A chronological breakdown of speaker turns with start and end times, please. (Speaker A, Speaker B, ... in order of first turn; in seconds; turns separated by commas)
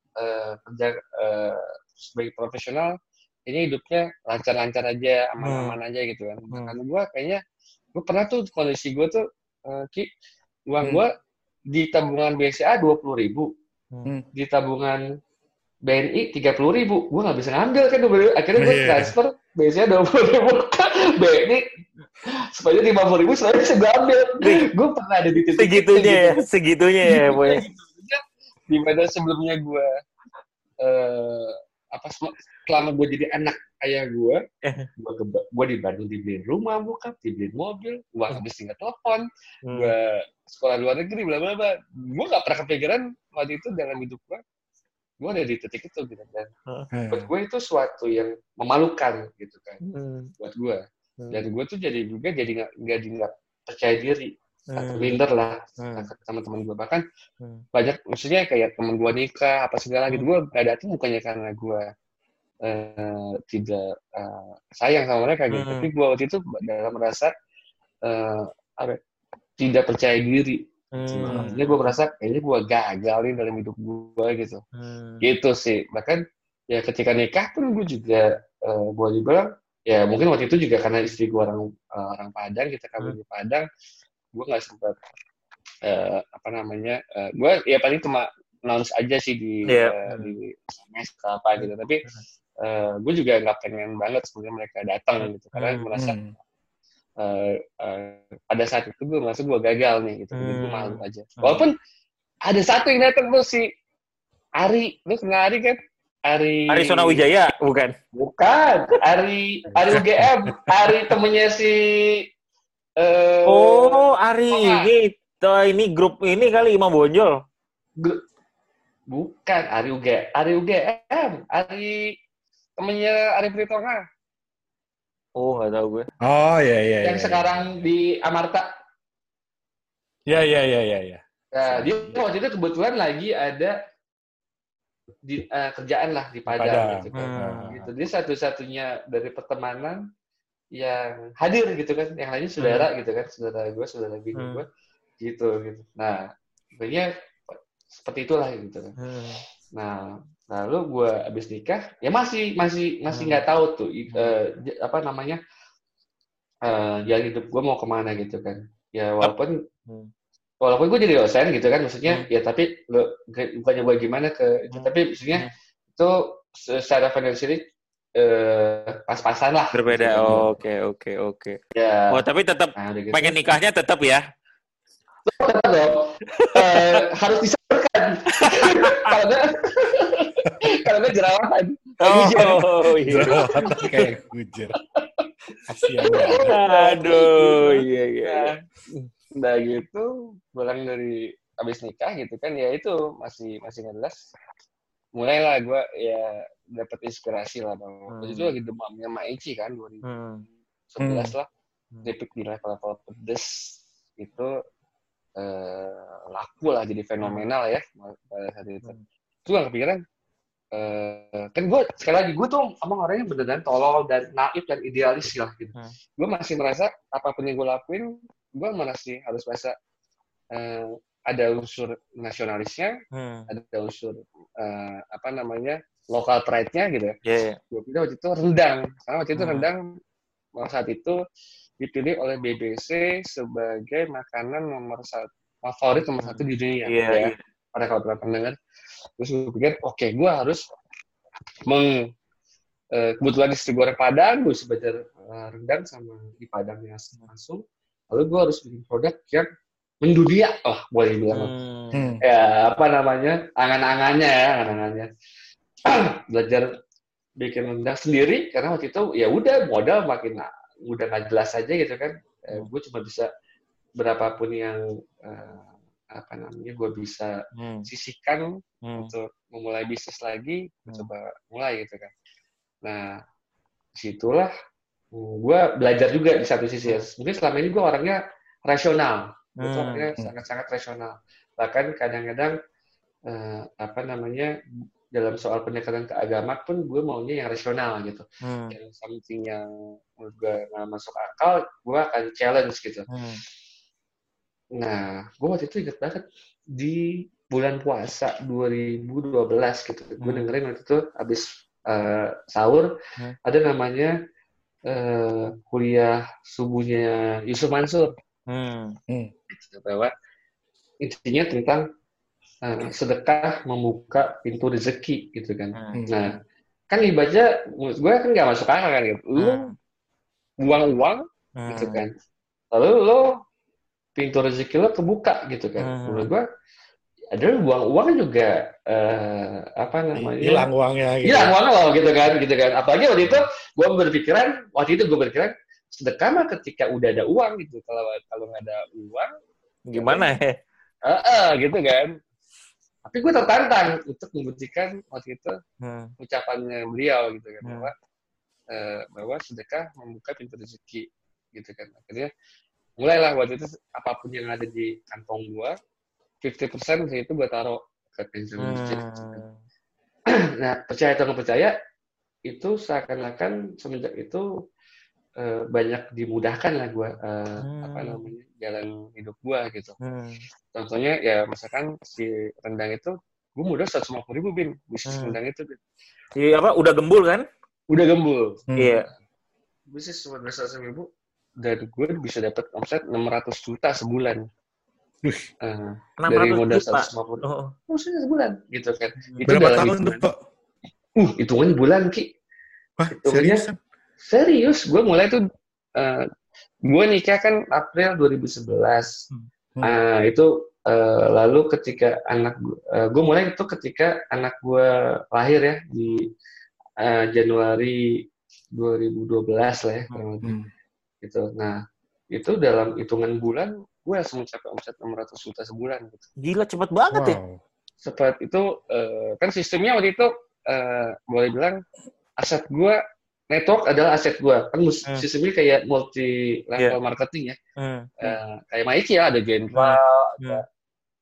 Speaker A: 0.2-2.9, Speaker A: 3.5-7.4, Speaker B: 5.4-5.8, Speaker A: 8.0-10.1, Speaker A: 10.7-11.1, Speaker A: 11.7-13.5, Speaker A: 14.3-15.0, Speaker A: 15.9-21.6, Speaker C: 18.6-19.1, Speaker A: 22.5-26.4, Speaker B: 25.6-27.6, Speaker A: 27.1-29.9, Speaker A: 30.8-34.4, Speaker A: 35.0-44.4, Speaker B: 39.7-39.9, Speaker A: 45.2-46.5, Speaker C: 46.9-47.3, Speaker A: 47.1-49.8, Speaker B: 49.8-50.3, Speaker A: 50.4-57.0, Speaker B: 54.7-55.2, Speaker B: 55.8-56.1, Speaker A: 57.7-61.8, Speaker A: 62.6-67.3, Speaker B: 65.5-65.9, Speaker A: 68.0-69.0, Speaker A: 69.6-74.6, Speaker B: 71.0-71.9, Speaker C: 71.3-71.5, Speaker B: 74.8-75.2, Speaker A: 75.2-83.7, Speaker A: 84.3-85.0, Speaker A: 85.8-92.0, Speaker B: 89.7-90.3, Speaker B: 91.6-92.2, Speaker A: 92.6-96.2, Speaker B: 95.2-95.8, Speaker C: 96.0-96.3, Speaker A: 97.2-101.7, Speaker B: 100.3-101.7, Speaker A: 102.5-103.7, Speaker A: 104.6-107.2, Speaker B: 106.7-107.9, Speaker A: 108.1-112.2, Speaker C: 109.8-110.7, Speaker A: 113.0-114.9, Speaker B: 113.5-117.3, Speaker A: 119.1-122.1, Speaker A: 122.8-124.0, Speaker B: 125.4-126.1, Speaker C: 126.2-127.8, Speaker A: 127.0-128.7, Speaker C: 130.2-132.2, Speaker A: 131.5-133.8, Speaker A: 135.2-140.0, Speaker C: 136.5-137.9, Speaker B: 137.2-137.7, Speaker A: 140.7-144.7, Speaker B: 142.6-142.9, Speaker B: 144.3-144.6, Speaker A: 145.2-146.2, Speaker A: 146.8-148.9, Speaker B: 149.0-149.4, Speaker A: 149.7-155.4, Speaker B: 153.1-153.4, Speaker A: 156.6-159.6, Speaker A: 160.6-167.6, Speaker B: 164.7-165.5, Speaker A: 168.2-170.6, Speaker B: 169.7-171.6, Speaker A: 171.7-172.2, Speaker B: 172.1-174.2, Speaker A: 172.8-173.4, Speaker A: 175.2-183.9, Speaker B: 176.3-177.0, Speaker B: 178.5-179.1, Speaker B: 182.0-184.0, Speaker C: 182.1-182.5, Speaker C: 183.1-184.7, Speaker A: 185.0-185.2, Speaker C: 185.7-186.5, Speaker A: 186.0-188.6, Speaker B: 186.4-189.1, Speaker A: 189.3-194.2, Speaker A: 195.2-200.0, Speaker B: 198.1-198.5, Speaker B: 200.0-200.4, Speaker A: 200.9-201.5, Speaker C: 201.0-201.3, Speaker A: 202.0-204.5, Speaker A: 205.4-210.0, Speaker A: 210.7-219.7, Speaker A: 220.5-222.9, Speaker B: 223.1-223.5, Speaker A: 223.5-227.1, Speaker B: 227.2-227.6, Speaker A: 227.7-229.8, Speaker B: 229.3-229.7, Speaker A: 230.6-231.2, Speaker A: 231.8-238.5, Speaker B: 236.2-237.4, Speaker A: 239.2-240.6, Speaker A: 241.7-242.0, Speaker A: 242.9-249.5, Speaker A: 250.0-251.5, Speaker B: 251.3-252.0, Speaker C: 251.9-252.2, Speaker A: 252.2-255.1, Speaker A: 255.9-256.7, Speaker A: 257.4-263.3, Speaker A: 264.0-267.3, Speaker B: 267.6-267.9, Speaker A: 267.9-272.1, Speaker B: 268.9-269.1, Speaker A: 272.8-273.1, Speaker A: 274.0-274.5, Speaker A: 275.1-282.6, Speaker B: 279.6-280.1, Speaker A: 283.3-284.5, Speaker A: 285.1-289.7, Speaker B: 288.4-288.8, Speaker A: 290.2-293.1, Speaker B: 293.1-293.4, Speaker A: 294.8-296.2, Speaker A: 296.8-302.9, Speaker B: 300.2-300.5, Speaker A: 303.4-304.1, Speaker A: 304.9-308.1, Speaker B: 308.5-309.0, Speaker A: 309.5-310.1, Speaker A: 311.0-311.8, Speaker A: 312.6-316.4, Speaker B: 315.8-316.2, Speaker A: 316.9-319.7, Speaker B: 319.4-319.7, Speaker A: 320.6-322.1, Speaker B: 321.6-322.0, Speaker A: 322.7-323.3, Speaker A: 324.2-326.4, Speaker B: 325.8-326.3, Speaker A: 327.3-330.7, Speaker C: 330.2-331.6, Speaker A: 331.2-339.3, Speaker B: 339.9-340.5, Speaker A: 339.9-340.3, Speaker A: 341.1-342.1, Speaker A: 343.1-345.5, Speaker B: 345.8-346.1, Speaker A: 346.2-347.9, Speaker A: 348.7-352.3, Speaker A: 353.0-355.8, Speaker A: 356.4-359.4, Speaker B: 358.6-359.6, Speaker A: 360.6-361.7, Speaker A: 362.5-364.4, Speaker A: 365.4-370.0, Speaker B: 367.6-368.3, Speaker B: 370.0-370.4, Speaker A: 370.7-375.8, Speaker B: 375.1-375.4, Speaker B: 376.4-377.4, Speaker A: 377.9-378.6, Speaker C: 378.7-379.0, Speaker B: 378.8-379.1, Speaker A: 379.9-381.1, Speaker A: 381.6-384.4, Speaker A: 385.6-390.3, Speaker B: 386.2-387.7, Speaker C: 389.4-390.4, Speaker A: 391.2-392.3, Speaker C: 393.0-393.8, Speaker A: 393.1-393.6, Speaker A: 394.2-395.4, Speaker A: 396.0-396.2, Speaker A: 396.9-399.1, Speaker A: 399.8-406.2, Speaker A: 407.0-408.1, Speaker A: 408.8-410.5, Speaker C: 410.4-410.7, Speaker A: 411.2-411.8, Speaker A: 412.3-416.3, Speaker B: 416.4-417.4, Speaker C: 417.1-417.6, Speaker A: 418.0-421.8, Speaker A: 422.4-423.0, Speaker A: 423.5-427.6, Speaker B: 427.8-428.4, Speaker A: 428.2-430.6, Speaker B: 429.7-430.6